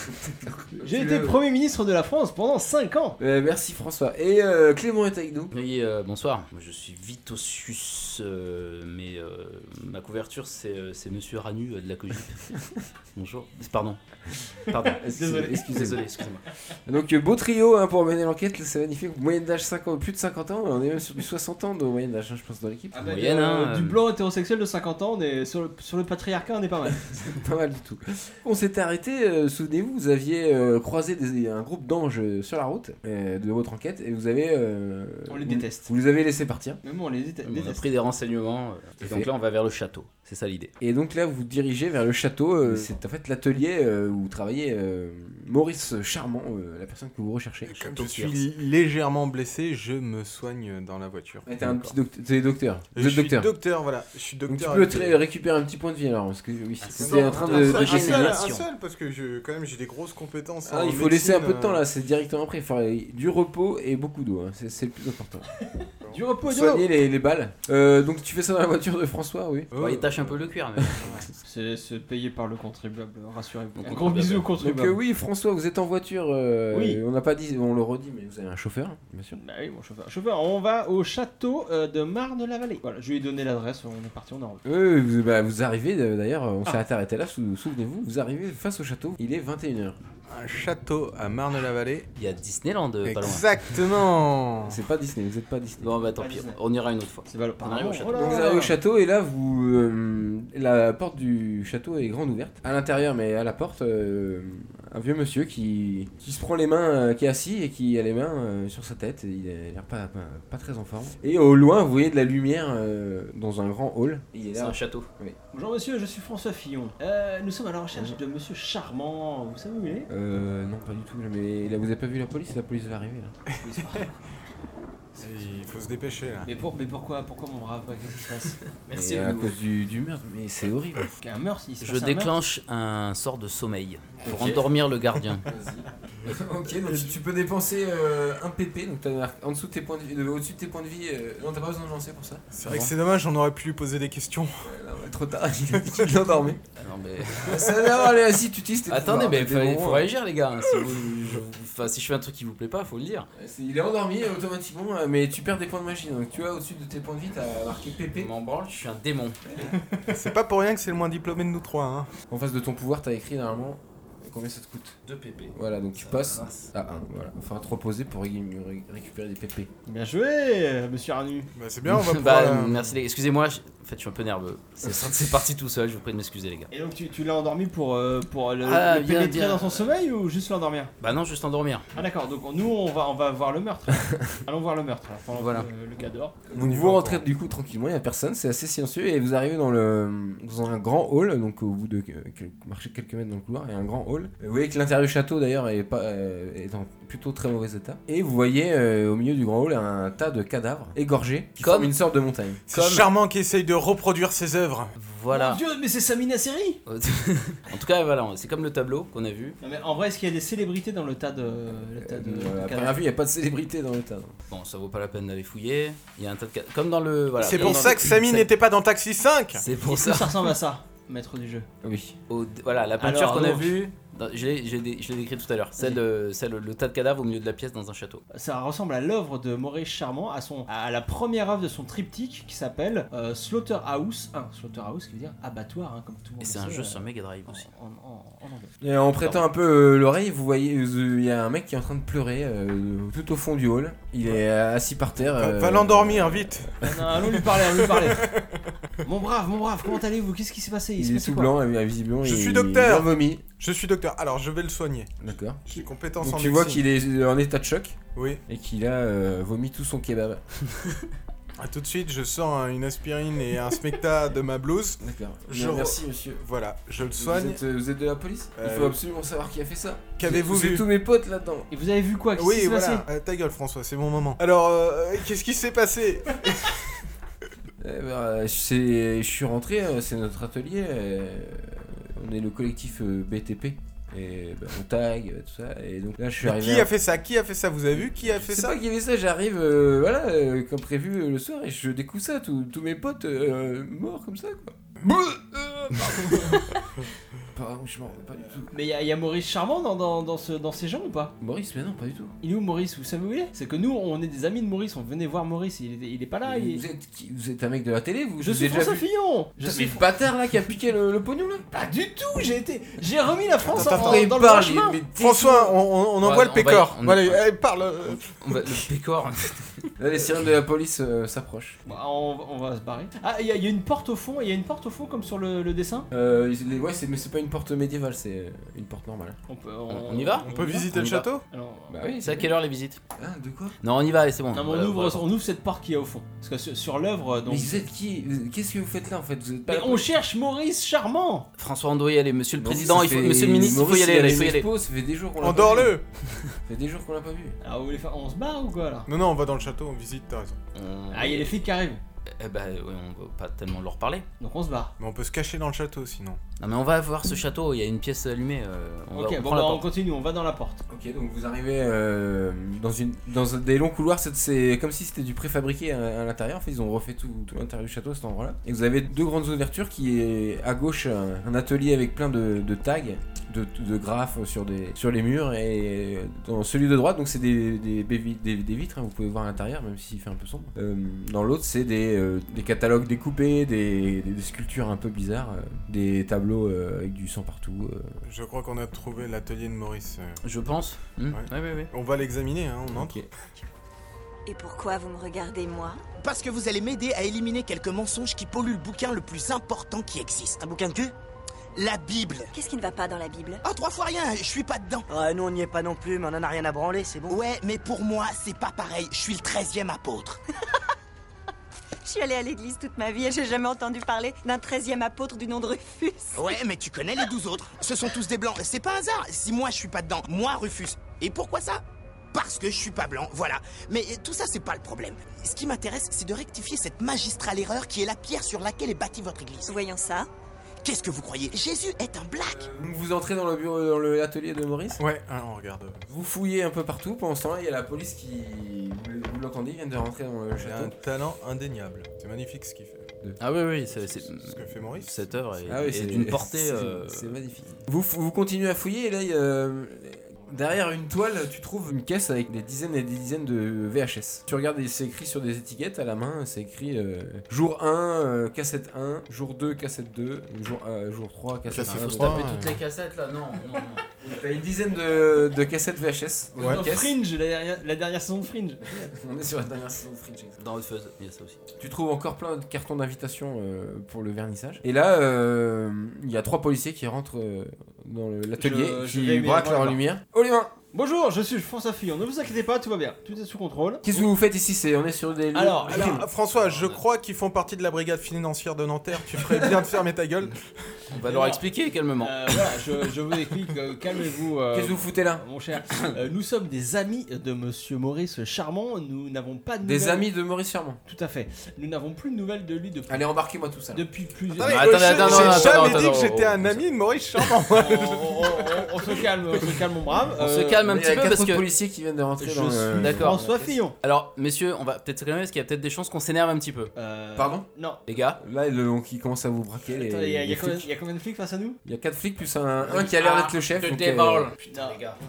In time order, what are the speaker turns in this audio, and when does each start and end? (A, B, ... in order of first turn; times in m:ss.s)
0:00.2-0:01.4 A
0:00.8-0:03.2 B
0:03.2-0:05.5 A
0:05.5-0:12.4 C
0:13.2-0:14.0 C
0:14.5-0:16.5 C
0:14.8-0:16.0 A
0:15.1-0:15.9 B
0:16.8-0:23.0 A
0:22.9-0:27.2 B
0:23.0-0:24.0 C
0:27.3-0:36.8 A
0:35.3-0:35.9 B
0:36.8-0:37.8 B
0:37.4-0:40.7 C
0:39.0-0:39.3 A
0:40.8-0:48.0 A
0:47.7-0:48.4 C
0:47.8-0:51.5 D
0:51.4-0:53.5 A
0:51.6-0:52.0 C
0:53.0-0:55.2 D
0:54.5-0:58.4 A
0:56.8-0:58.7 C
0:57.0-1:01.8 D
1:00.6-1:05.5 A
1:06.1-1:06.9 B
1:06.5-1:09.8 A
1:09.7-1:10.4 D
1:09.8-1:11.3 C
1:10.8-1:11.1 A
1:11.0-1:11.3 D
1:11.4-1:15.0 B
1:13.8-1:14.5 C
1:14.6-1:19.4 A
1:16.7-1:17.0 B
1:19.3-1:24.6 B
1:24.6-1:30.0 A
1:30.3-1:32.1 D
1:32.2-1:33.6 C
1:33.0-1:34.8 D
1:34.6-1:35.9 A
1:35.8-1:38.4 C
1:36.2-1:36.6 B
1:37.3-1:38.7 B
1:38.1-1:55.4 A
1:54.5-1:55.1 C
1:55.5-2:00.1 B
2:00.1-2:03.4 A
2:03.6-2:04.2 B
2:05.2-2:06.5 D
2:06.4-2:09.5 B
2:08.9-2:11.1 A
2:11.2-2:12.4 B
2:11.8-2:15.4 C
2:14.2-2:14.7 A
2:15.4-2:22.9 A
2:16.7-2:17.1 D
2:22.5-2:24.7 D
2:24.6-2:26.6 A
2:25.7-2:26.2 D
2:26.8-2:27.9 C
2:27.4-2:30.1 A
2:27.5-2:27.9 D
2:28.9-2:33.3 C
2:33.3-2:38.3 A
2:38.1-2:39.4 C
2:39.5-2:39.8 A
2:40.0-2:42.1 D
2:42.3-2:45.0 A
2:45.0-2:46.7 C
2:45.5-2:49.7 A
2:49.8-2:51.5 B
2:51.5-2:53.0 D
2:51.8-2:56.7 C
2:56.7-3:00.9 B
2:58.6-2:59.9 C
3:01.0-3:01.9 C
3:01.9-3:06.3 B
3:05.4-3:05.7 C
3:06.5-3:22.6 A
3:06.5-3:07.2 D
3:21.6-3:21.9 C
3:22.7-3:24.9 D
3:22.7-3:23.1 C
3:25.0-3:25.6 C
3:25.3-3:26.8 B
3:26.9-3:29.6 C
3:29.6-3:32.9 B
3:32.0-3:34.3 A
3:34.5-3:38.5 C
3:37.4-3:39.6 D
3:37.6-3:37.8 B
3:37.6-3:37.9 A
3:39.6-3:40.5 C
3:39.8-3:41.7 B
3:41.8-3:42.2 A
3:42.3-3:48.2 C
3:43.0-3:43.8 B
3:48.3-3:58.7 B
3:56.4-3:57.7 C
3:58.8-4:06.9 A
3:59.2-3:59.4 C
4:05.2-4:08.7 D
4:06.8-4:08.3 B
4:09.0-4:11.6 B
4:11.0-4:13.4 A
4:12.2-4:16.8 D
4:15.2-4:15.6 A
4:16.2-4:20.4 A
4:18.2-4:18.4 D
4:21.6-4:27.6 D
4:25.0-4:26.4 A
4:27.2-4:31.7 A
4:28.6-4:29.0 D
4:30.2-4:30.9 D
4:31.7-4:33.1 B
4:32.4-4:36.7 D
4:37.8-4:46.9 A
4:46.4-4:48.8 D
4:47.9-4:56.8 A
4:57.5-4:58.7 A
4:58.7-5:01.3 B
5:01.4-5:02.4 A
5:02.4-5:06.8 B
5:06.4-5:09.1 A
5:08.4-5:10.0 B
5:09.6-5:11.7 A
5:11.7-5:15.0 B
5:13.6-5:14.3 D
5:13.6-5:15.7 A
5:15.1-5:18.8 D
5:16.2-5:17.5 C
5:18.0-5:19.9 C
5:20.0-5:21.8 A
5:21.9-5:26.1 B
5:26.1-5:29.4 A
5:29.5-5:30.9 B
5:29.9-5:31.2 C
5:30.4-5:31.4 D
5:31.5-5:32.0 B
5:31.9-5:32.5 A
5:32.2-5:33.0 C
5:33.2-5:33.8 A
5:33.8-5:35.3 C
5:34.5-5:37.8 B
5:37.5-5:40.1 A
5:39.7-5:41.5 B
5:41.6-5:44.7 C
5:42.6-5:45.9 A
5:45.4-5:46.0 D
5:46.7-5:47.6 A
5:47.6-5:49.1 B
5:49.1-5:50.6 D
5:50.7-5:51.6 C
5:51.1-5:52.0 B
5:52.4-5:54.3 C
5:54.4-5:54.9 B
5:55.0-5:56.4 D
5:56.6-5:59.9 C
5:59.1-6:00.8 B
6:00.9-6:28.2 A
6:28.2-6:30.4 D
6:30.4-6:31.9 C
6:31.3-6:33.3 D
6:32.9-6:33.3 A
6:34.5-6:36.0 E
6:36.2-6:40.6 F
6:40.6-6:41.1 G
6:41.7-6:42.5 F
6:42.5-6:43.6 E
6:43.6-6:45.1 F
6:45.1-6:47.4 G
6:47.3-6:50.4 F
6:52.0-6:56.6 E
6:56.4-7:01.8 F
7:02.3-7:09.7 F
7:09.7-7:10.3 E
7:10.8-7:12.7 F
7:12.5-7:15.0 A
7:15.0-7:16.0 D
7:16.1-7:20.9 A
7:20.6-7:23.1 D
7:23.4-7:27.4 C
7:23.9-7:25.4 D
7:25.7-7:42.6 A
7:41.7-7:42.8 D
7:41.8-7:44.1 C
7:44.2-7:47.1 A
7:46.6-7:46.8 D
7:46.6-7:49.0 B
7:48.9-7:50.6 A
7:50.6-7:51.6 C
7:51.8-8:00.8 A
7:58.6-8:00.0 B
8:00.9-8:04.1 B
8:04.0-8:06.2 A
8:05.5-8:06.2 B
8:05.9-8:10.6 D
8:06.5-8:07.0 C
8:11.1-8:12.8 C
8:11.2-8:11.6 B
8:12.2-8:20.3 B
8:14.7-8:15.4 A
8:19.8-8:21.0 A
8:21.1-8:23.2 B
8:23.1-8:24.0 A
8:23.9-8:25.9 B
8:24.6-8:29.2 D
8:24.6-8:26.8 C
8:27.7-8:30.8 B
8:30.4-8:31.7 C
8:30.9-8:33.8 A
8:32.4-8:33.4 C
8:33.0-8:34.0 B
8:34.0-8:36.9 C
8:37.0-8:38.0 B
8:37.4-8:37.7 A
8:38.1-8:38.4 C
8:38.4-8:40.9 A
8:39.9-8:41.8 B
8:41.8-8:44.5 A
8:42.8-8:45.2 C
8:44.7-8:45.0 B